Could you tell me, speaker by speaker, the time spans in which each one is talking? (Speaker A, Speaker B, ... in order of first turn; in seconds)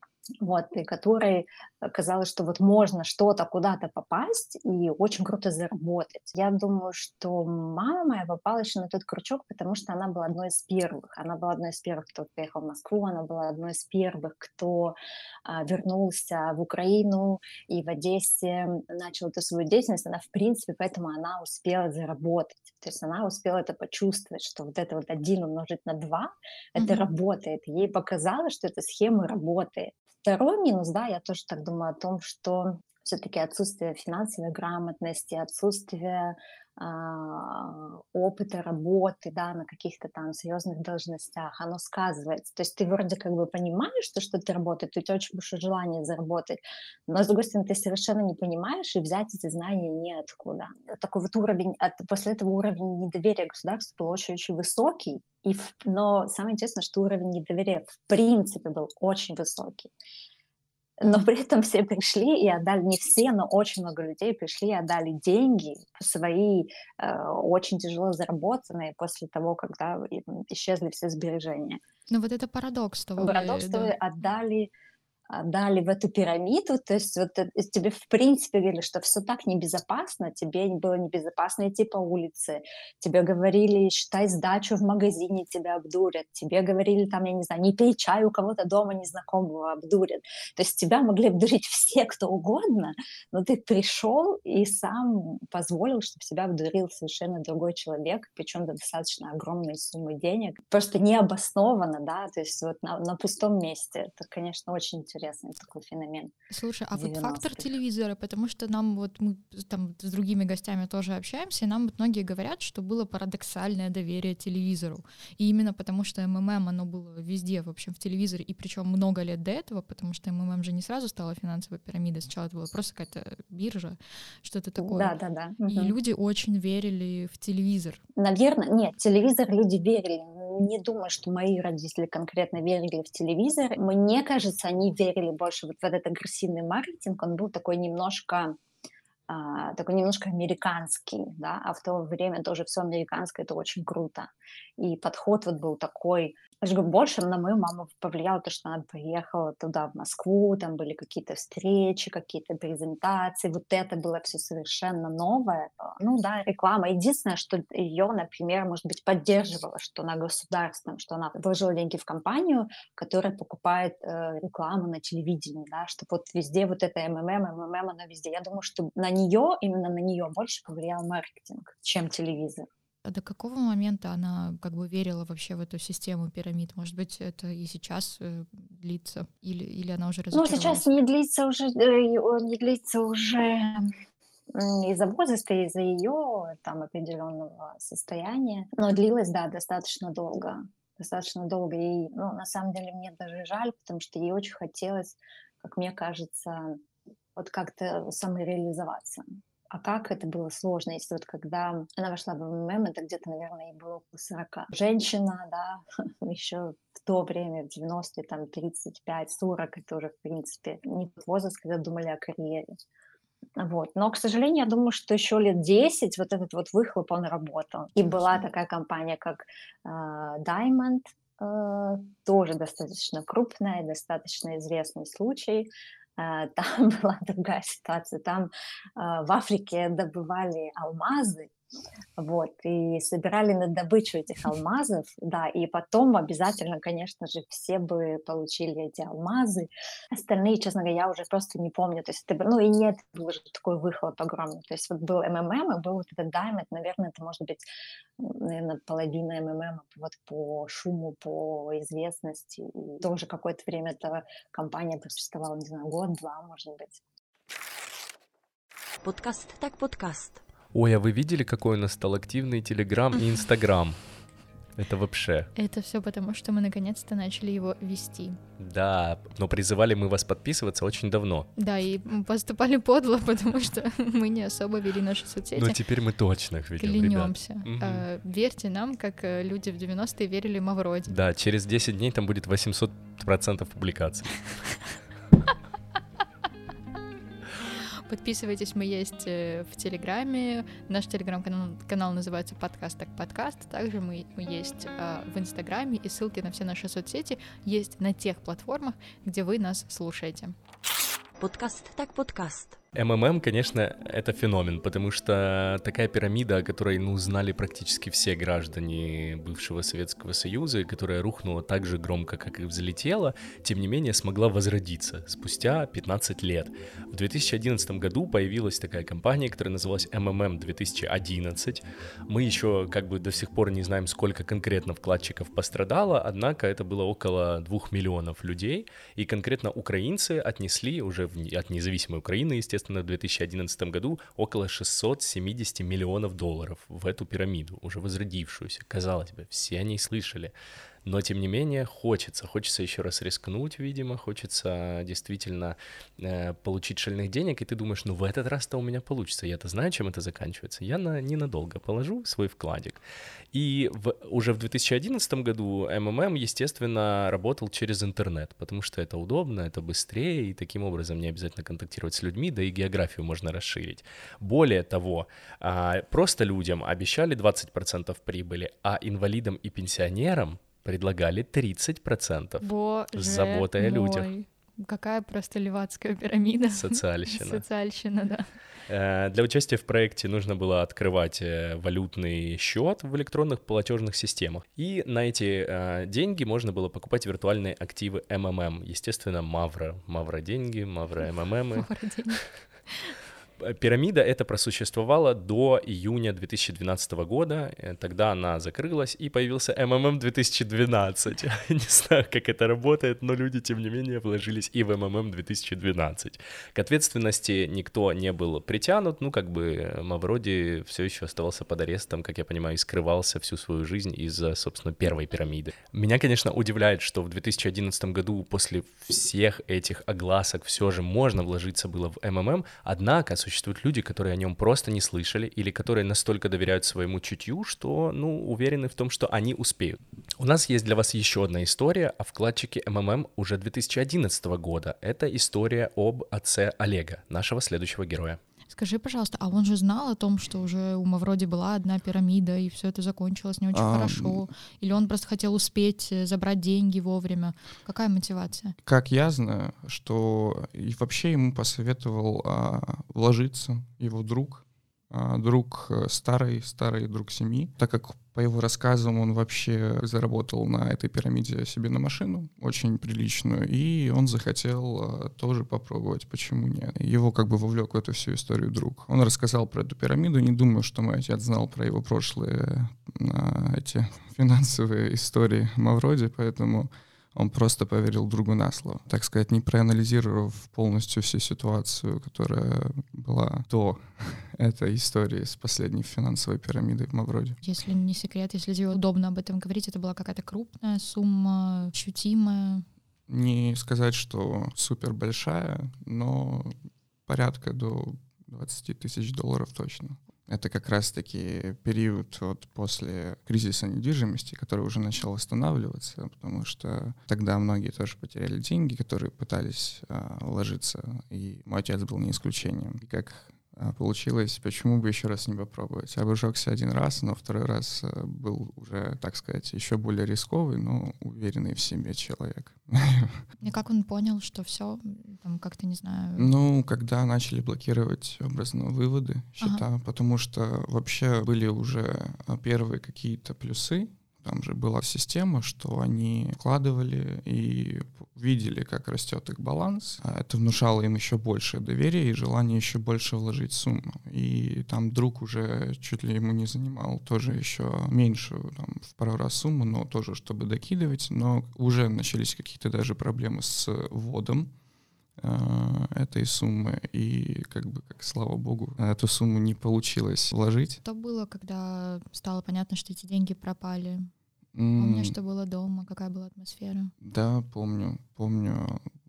Speaker A: 0.4-59.9, 61.0-71.8, 73.2-74.7, 75.3-106.3, 106.9-107.7, 124.8-125.9, 128.2-138.6, 139.3-172.7, 180.3-183.9, 184.5-196.8, 197.4-212.7, 213.6-231.5, 232.2-247.6, 248.2-257.0
Speaker B: 26.8-27.1, 72.1-73.9, 106.5-125.1, 125.7-128.0, 173.1-180.8, 265.6-268.4, 271.6-275.8, 276.8-281.1, 288.1-300.5, 372.6-378.5, 391.8-393.1, 438.7-448.8, 487.6-492.9, 523.6-526.5, 561.0-564.3, 565.0-567.1
Speaker C: 259.0-260.4, 301.4-302.8
Speaker D: 260.7-264.0, 264.8-265.5, 268.6-271.5, 275.6-278.1, 281.1-284.5, 302.9-340.5, 341.1-353.0, 353.5-374.3, 376.7-377.6, 378.9-391.9, 393.6-438.4
Speaker E: 443.7-444.5, 448.9-487.6, 493.3-496.7, 497.3-523.4, 526.4-554.7, 555.4-561.0, 564.8-565.4, 567.2-569.0